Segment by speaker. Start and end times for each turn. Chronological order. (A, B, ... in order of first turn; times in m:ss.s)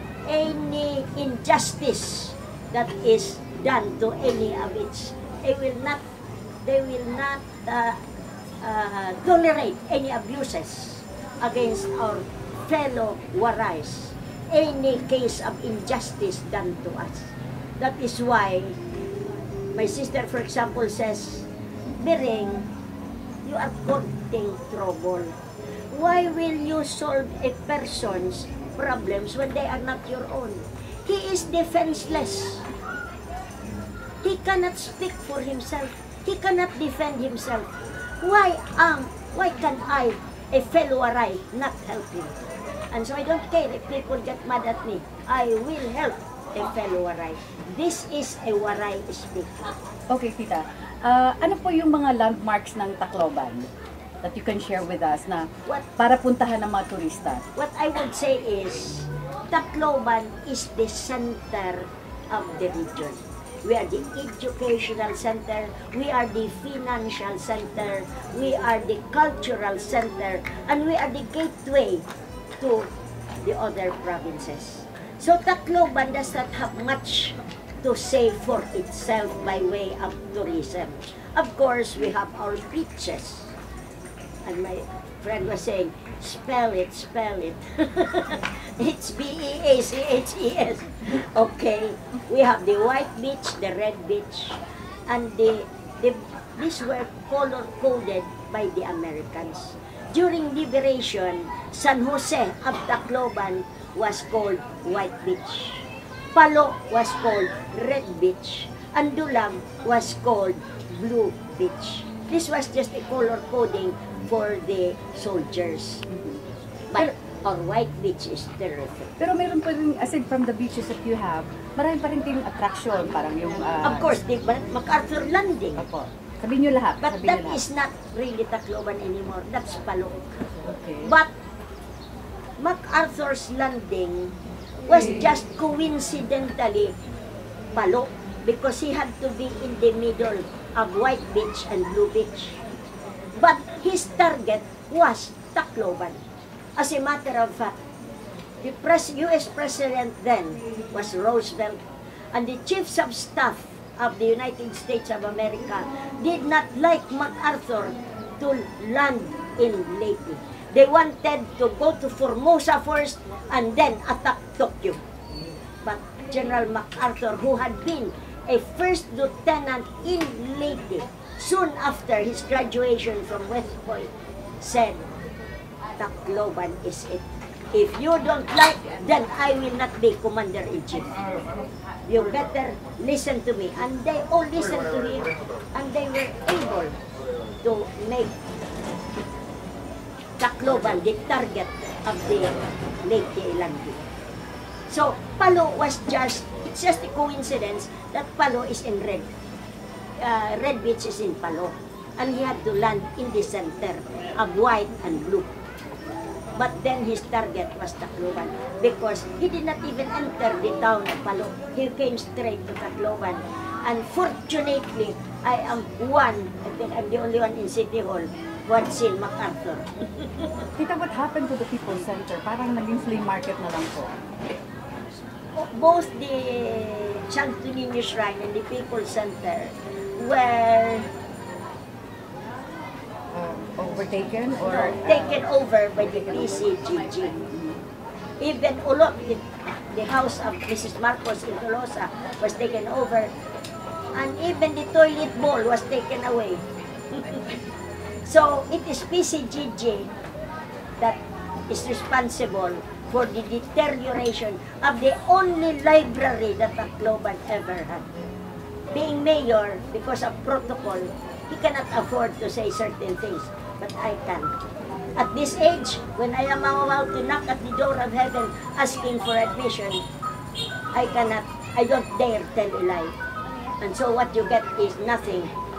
0:00.2-0:06.0 A
0:06.6-0:08.0 A
0:08.6-0:18.8 A
0:19.8-0:22.7 A
0:23.4-0:25.4 A
0:25.9-0:32.7 A
0:34.2-0:49.7 A
0:50.1-0:53.7 B
0:54.2-0:57.4 B
0:57.5-1:12.1 A
1:12.6-1:12.9 A
1:13.4-1:23.5 A
1:24.4-1:56.1 A
1:56.1-1:56.4 B
1:56.9-1:59.2 A
1:59.2-2:04.1 B
2:03.8-2:05.8 A
2:05.8-2:07.6 B
2:07.0-2:10.4 A
2:10.6-2:11.1 B
2:11.0-2:11.3 A
2:12.6-2:16.9 A
2:17.7-2:22.6 A
2:23.3-2:26.2 A
2:26.8-2:27.7 A
2:28.6-2:31.8 A
2:32.3-2:45.0 A
2:45.8-2:55.0 A
2:56.0-3:01.2 A
3:02.1-3:07.0 A
3:07.6-3:08.4 A
3:10.4-3:14.0 A
3:14.9-3:19.3 A
3:20.2-3:25.6 A
3:26.5-3:39.9 A
3:40.8-3:44.1 B
3:45.5-3:51.1 A
3:53.3-3:55.5 B
3:54.6-3:57.3 A
3:56.3-3:57.8 B
3:58.4-4:03.3 A
4:04.1-4:07.5 A
4:08.2-4:10.1 A
4:11.0-4:18.1 A
4:18.9-4:24.5 A
4:25.2-4:30.0 A
4:30.9-4:33.2 A
4:33.8-4:35.5 A